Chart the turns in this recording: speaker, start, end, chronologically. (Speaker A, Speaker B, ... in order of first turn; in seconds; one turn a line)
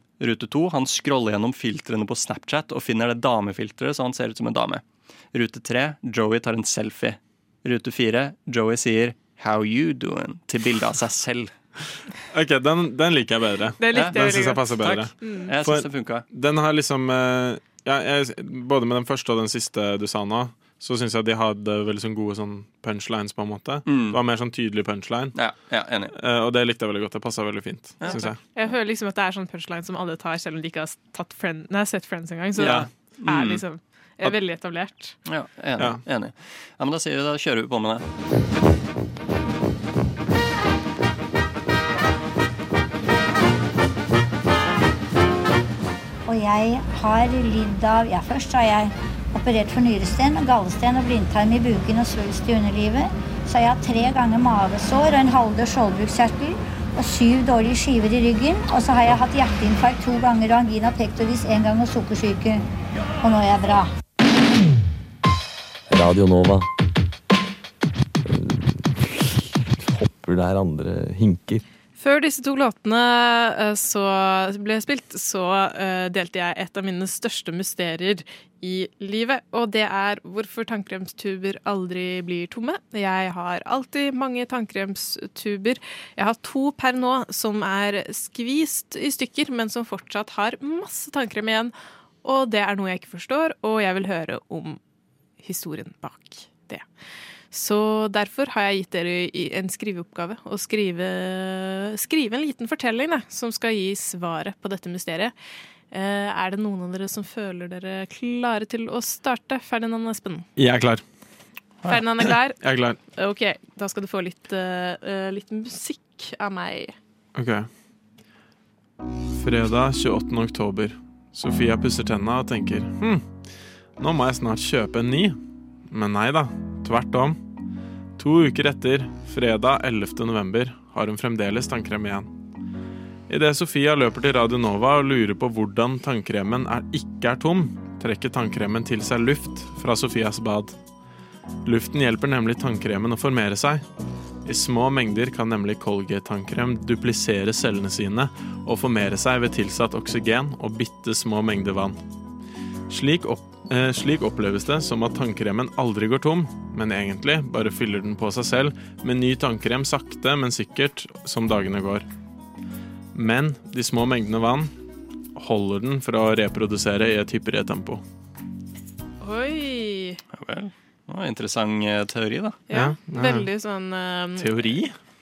Speaker A: 0.2-11.5
Speaker B: 12.3-25.4
Speaker C: 13.8-15.5
Speaker A: 13.9-16.3
Speaker A: 23.9-24.2
Speaker A: 25.3-26.1
Speaker B: 26.1-28.4
Speaker A: 28.0-28.4
Speaker C: 28.1-35.2
Speaker A: 32.6-33.6
Speaker B: 32.6-32.9
Speaker A: 35.2-38.0
Speaker B: 35.8-36.0
Speaker D: 46.3-62.6
Speaker D: 63.2-63.9
Speaker E: 65.9-66.7
Speaker E: 68.3-69.0
Speaker E: 69.8-71.6
Speaker C: 72.0-94.8
Speaker C: 95.4-96.9
Speaker C: 97.5-105.3
Speaker C: 105.9-110.5
Speaker B: 110.6-111.0
Speaker A: 111.8-112.4
Speaker C: 111.9-112.6
Speaker B: 112.6-113.0
Speaker C: 113.1-116.9
Speaker B: 117.3-117.7
Speaker B: 119.3-123.3
Speaker B: 124.0-127.4
Speaker B: 128.2-132.3
Speaker B: 133.3-140.8
Speaker B: 141.7-143.8
Speaker B: 144.5-152.0
Speaker B: 152.9-162.1
Speaker B: 163.2-164.7
Speaker B: 165.4-168.0
Speaker C: 169.2-170.2
Speaker A: 170.3-172.6
Speaker C: 172.7-174.6
Speaker B: 172.7-173.5
Speaker B: 174.4-174.9